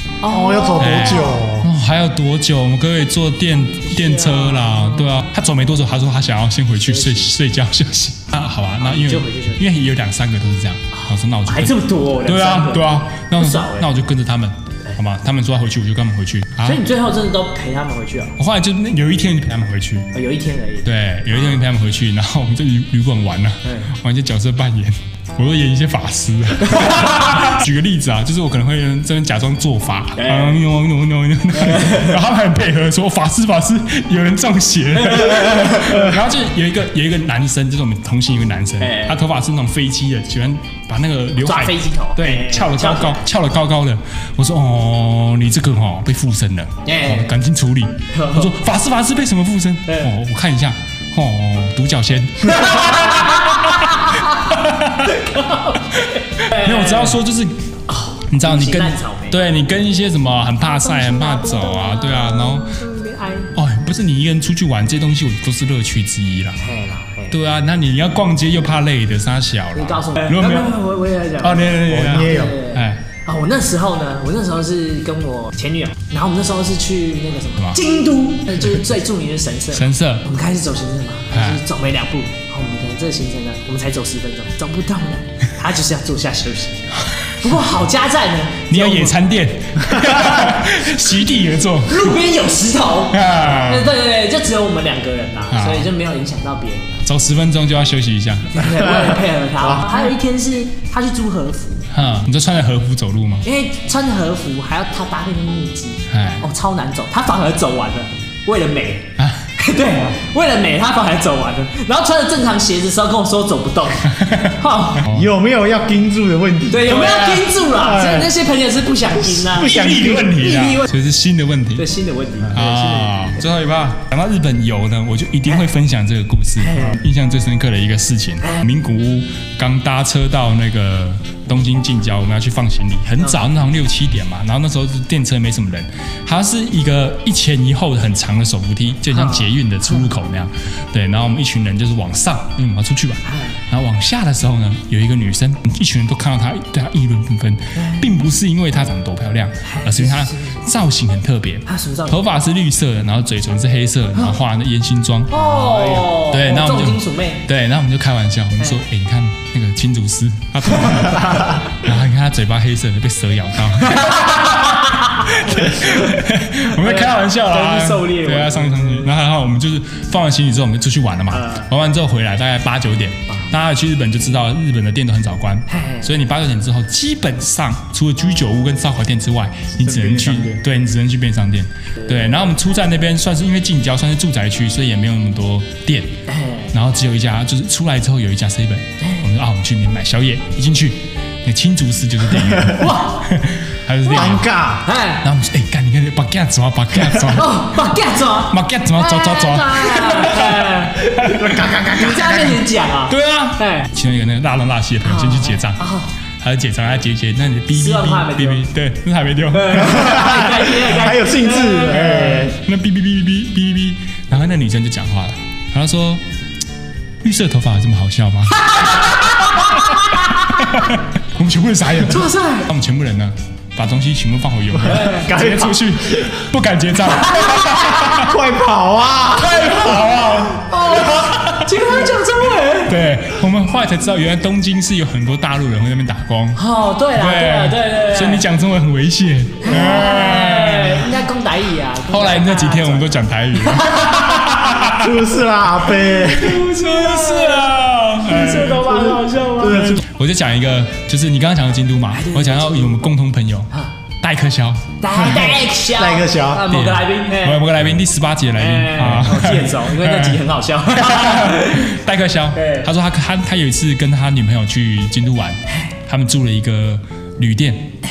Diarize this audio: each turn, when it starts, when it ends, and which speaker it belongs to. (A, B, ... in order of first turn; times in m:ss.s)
0:00.2-0:01.4 A
0:00.2-0:01.7 B
0:00.8-0:16.8 C
0:03.8-0:05.1 A
0:06.8-0:07.3 A
0:08.8-0:09.6 A
0:10.9-0:13.9 A
0:16.6-0:18.4 A
0:18.4-0:20.1 C
0:20.1-0:21.6 A
0:20.8-0:55.1 C
0:23.6-0:23.9 A
0:26.6-0:27.4 A
0:30.2-0:30.6 A
0:31.6-0:32.1 A
0:35.2-0:36.0 A
0:38.8-0:39.2 A
0:41.4-0:43.2 A
0:46.8-0:47.3 A
0:48.1-0:48.5 A
0:52.5-0:54.3 A
0:55.1-0:57.1 A
0:56.4-0:57.6 C
0:57.9-0:59.4 A
0:58.3-1:02.8 C
1:00.6-1:03.6 A
1:03.5-1:06.6 C
1:06.6-1:07.4 A
1:07.3-1:10.8 C
1:09.7-1:29.2 A
1:11.4-1:13.0 C
1:12.0-1:12.5 B
1:19.7-1:20.2 C
1:21.3-1:21.6 C
1:28.7-1:32.1 C
1:31.8-1:37.0 A
1:33.1-1:33.9 C
1:35.5-1:35.9 C
1:37.0-1:38.7 C
1:38.5-1:41.9 A
1:41.9-1:43.4 C
1:43.4-1:55.1 A
1:46.1-1:46.4 C
1:54.2-1:55.3 C
1:55.1-1:57.0 B
1:56.7-2:00.9 A
1:56.9-1:57.5 C
1:57.7-1:58.3 B
1:59.3-2:01.9 C
2:01.8-2:03.4 A
2:02.5-3:06.2 C
2:06.6-2:07.0 A
2:19.1-2:20.0 A
2:23.2-2:23.6 A
2:27.7-2:28.1 A
2:29.6-2:30.6 A
2:31.7-2:32.2 A
2:35.3-2:37.4 A
2:38.6-2:38.8 A
2:43.9-2:49.1 A
2:51.3-2:51.7 A
2:55.7-2:56.1 A
2:59.8-3:00.6 B
3:06.3-3:06.7 A
3:06.7-3:14.5 C
3:09.0-3:09.3 A
3:12.7-3:13.2 A
3:14.1-3:15.2 A
3:14.1-3:14.8 B
3:15.2-3:17.7 C
3:17.1-3:21.1 A
3:18.5-3:21.6 C
3:21.2-3:22.4 B
3:21.9-3:23.9 A
3:23.1-3:25.8 C
3:25.0-3:26.1 A
3:26.4-3:30.2 C
3:27.7-3:28.6 A
3:29.5-3:32.5 A
3:30.2-3:32.6 B
3:31.9-3:36.2 C
3:37.2-3:39.9 C
3:38.7-3:40.9 A
3:40.5-3:48.3 C
3:42.0-3:42.7 A
3:44.9-3:45.3 A
3:44.9-3:45.7 B
3:47.4-3:48.0 A
3:47.9-3:49.7 B
3:49.3-3:51.8 C
3:49.6-3:50.0 A
3:50.5-3:53.0 A
3:52.8-3:56.6 C
3:56.5-3:58.4 A
3:57.1-4:01.1 C
3:59.6-4:04.7 A
4:02.1-4:05.2 C
4:04.8-4:06.6 B
4:06.1-4:10.0 A
4:06.5-4:08.9 C
4:09.6-4:10.0 B
4:09.8-4:13.7 C
4:12.1-4:13.1 A
4:14.2-4:14.9 C
4:15.0-4:17.7 A
4:15.2-4:16.7 B
4:16.7-4:27.9 C
4:18.6-4:21.9 A
4:22.5-4:22.9 A